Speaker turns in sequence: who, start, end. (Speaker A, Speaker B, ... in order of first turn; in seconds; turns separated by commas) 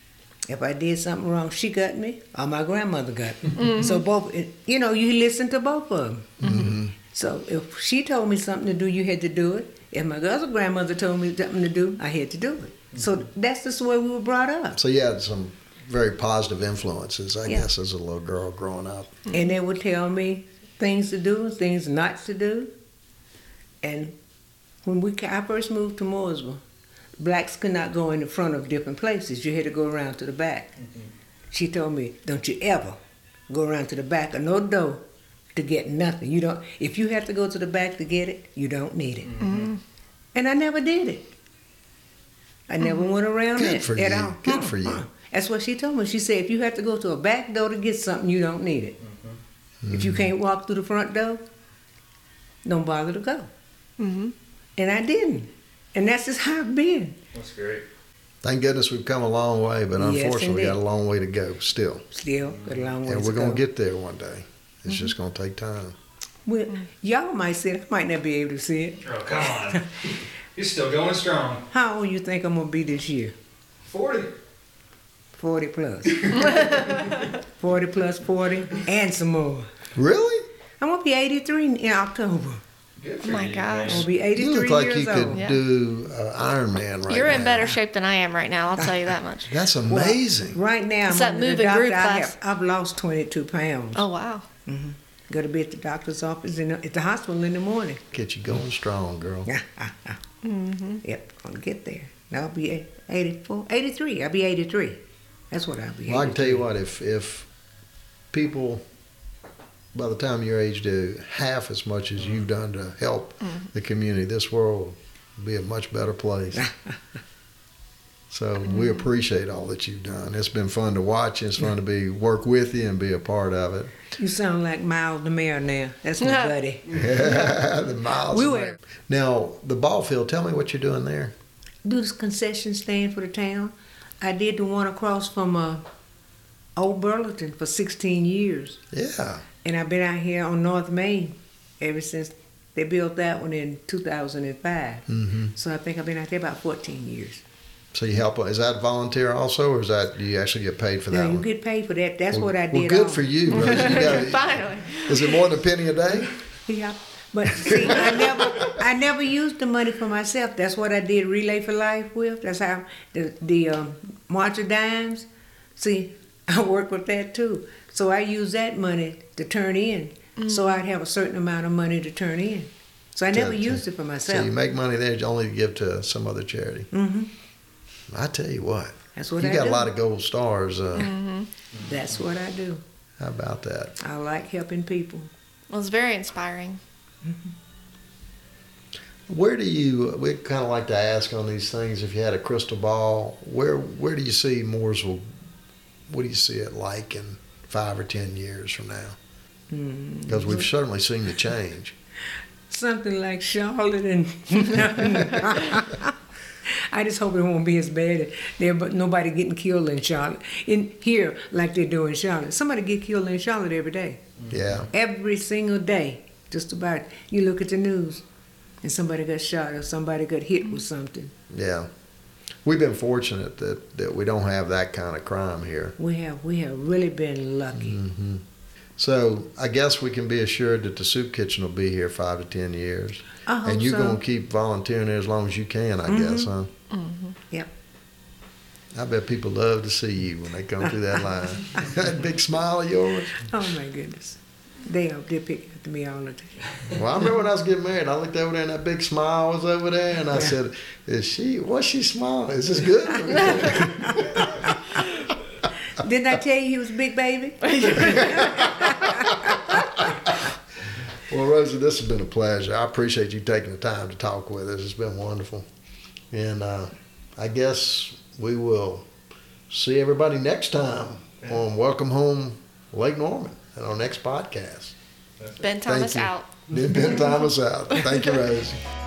Speaker A: 0.5-14.8, Speaker B: 3.6-4.0, Speaker C: 6.4-6.9, Speaker C: 14.8-19.3, Speaker A: 19.3-22.7, Speaker A: 23.8-24.1, Speaker A: 24.8-26.6, Speaker A: 27.2-30.8, Speaker A: 31.5-33.0, Speaker A: 33.5-35.0, Speaker A: 35.6-39.4, Speaker D: 39.2-39.7, Speaker B: 39.4-39.8, Speaker A: 40.4-41.3, Speaker A: 42.7-49.0, Speaker C: 43.6-45.0, Speaker D: 49.0-49.4, Speaker C: 49.8-50.3, Speaker A: 49.9-51.4, Speaker A: 52.6-53.5, Speaker B: 54.0-54.4, Speaker A: 54.8-57.2, Speaker D: 57.3-57.9, Speaker C: 58.4-62.1, Speaker A: 60.0-60.8, Speaker A: 62.1-63.6, Speaker D: 62.4-62.8, Speaker C: 63.0-66.0, Speaker A: 66.5-69.6, Speaker D: 69.0-71.7, Speaker A: 71.7-73.3, Speaker D: 73.9-74.3, Speaker A: 75.4-76.7, Speaker D: 76.2-77.1, Speaker B: 76.5-77.0, Speaker A: 77.6-79.7, Speaker C: 80.0-80.5, Speaker A: 80.8-82.6, Speaker D: 83.0-84.1, Speaker B: 83.2-84.1, Speaker A: 83.8-85.4, Speaker C: 84.3-87.8, Speaker B: 85.3-85.6, Speaker B: 87.1-89.5, Speaker A: 87.4-87.8, Speaker C: 89.5-90.6, Speaker A: 89.9-94.1, Speaker B: 91.1-92.3, Speaker B: 94.0-94.5, Speaker A: 94.7-98.0, Speaker C: 98.1-99.5, Speaker A: 99.5-100.2, Speaker B: 100.4-101.0, Speaker A: 101.0-106.7, Speaker C: 106.1-107.5, Speaker C: 108.3-108.8, Speaker C: 109.9-116.6, Speaker D: 112.2-112.4, Speaker C: 118.3-123.9, Speaker B: 118.7-119.0, Speaker A: 124.2-127.5, Speaker B: 126.2-126.5, Speaker C: 126.9-131.3, Speaker A: 128.3-128.8, Speaker A: 131.8-135.8, Speaker A: 136.8-138.8, Speaker C: 138.9-139.4, Speaker A: 139.6-147.4, Speaker C: 145.1-145.5, Speaker C: 147.9-151.5, Speaker A: 151.1-153.8, Speaker C: 152.3-156.3, Speaker B: 153.5-155.4, Speaker A: 156.7-174.5, Speaker C: 157.7-158.0, Speaker B: 170.4-170.7, Speaker C: 173.3-176.9, Speaker A: 176.9-177.3, Speaker C: 178.1-181.1, Speaker A: 179.2-179.9, Speaker B: 180.9-181.5, Speaker D: 181.8-182.1, Speaker A: 181.8-182.8, Speaker C: 183.2-184.0, Speaker A: 184.0-185.3, Speaker B: 185.7-186.8, Speaker A: 187.2-187.5, Speaker C: 189.3-195.3, Speaker C: 196.1-199.2, Speaker A: 199.7-200.7, Speaker C: 200.3-201.9, Speaker A: 202.7-214.2, Speaker D: 214.4-214.9, Speaker C: 214.5-214.9, Speaker A: 214.9-218.2, Speaker A: 218.8-221.3, Speaker C: 221.5-221.9, Speaker C: 222.7-225.9, Speaker A: 226.0-228.0, Speaker C: 227.7-228.4, Speaker C: 229.0-236.7, Speaker A: 233.5-234.2, Speaker A: 236.1-236.5, Speaker B: 236.9-237.3, Speaker C: 238.9-243.4, Speaker A: 243.4-246.7, Speaker C: 246.9-254.7, Speaker A: 255.9-259.6, Speaker B: 257.7-258.3, Speaker C: 258.1-260.5, Speaker C: 261.3-265.7, Speaker C: 266.3-269.1, Speaker C: 269.7-275.0, Speaker B: 275.6-276.5, Speaker C: 275.9-278.8, Speaker B: 277.0-277.3